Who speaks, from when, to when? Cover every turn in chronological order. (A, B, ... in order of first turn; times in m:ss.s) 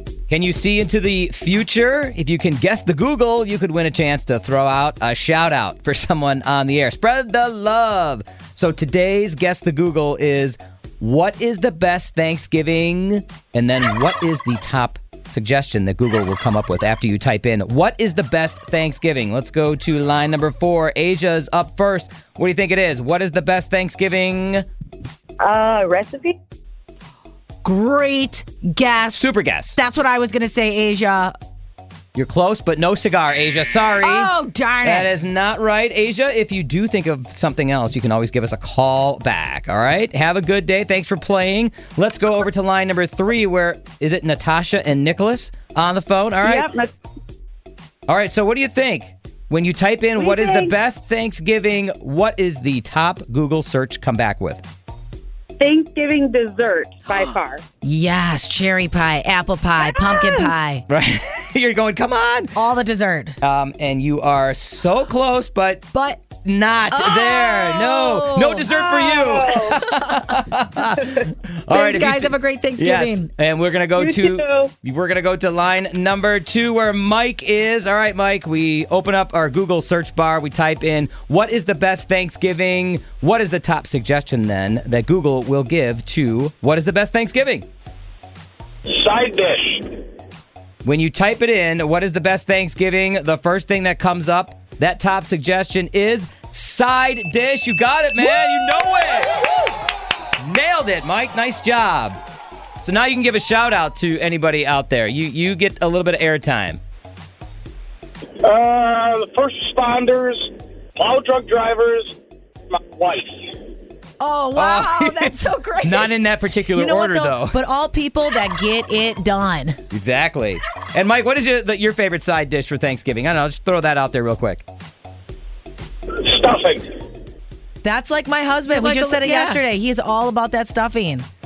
0:00.3-0:24.6 A
0:25.4-0:26.4 B
0:27.6-0:31.4 C
0:29.1-0:29.8 A
0:32.2-0:46.7 A
0:34.0-0:35.1 C
0:46.4-0:46.9 B
0:48.1-0:54.6 A
0:50.2-0:50.7 B
0:55.6-0:57.6 B
0:57.8-1:00.8 C
1:00.0-1:00.5 B
1:00.9-1:02.6 A
1:02.6-1:03.4 C
1:03.4-1:05.8 A
1:05.9-1:06.2 C
1:06.4-1:27.7 A
1:06.9-1:08.7 C
1:08.7-1:09.8 B
1:09.9-1:10.2 C
1:11.7-1:13.3 C
1:14.0-1:14.7 B
1:28.9-1:30.0 D
1:30.8-1:39.7 A
1:40.4-1:42.2 A
1:42.8-1:46.8 A
1:48.4-1:52.2 D
1:52.7-1:53.6 D
1:54.2-1:56.1 C
1:54.6-1:57.6 A
1:56.8-1:59.8 C
1:59.9-2:04.6 A
2:06.2-2:06.9 D
2:07.8-2:11.3 C
2:08.7-2:09.6 A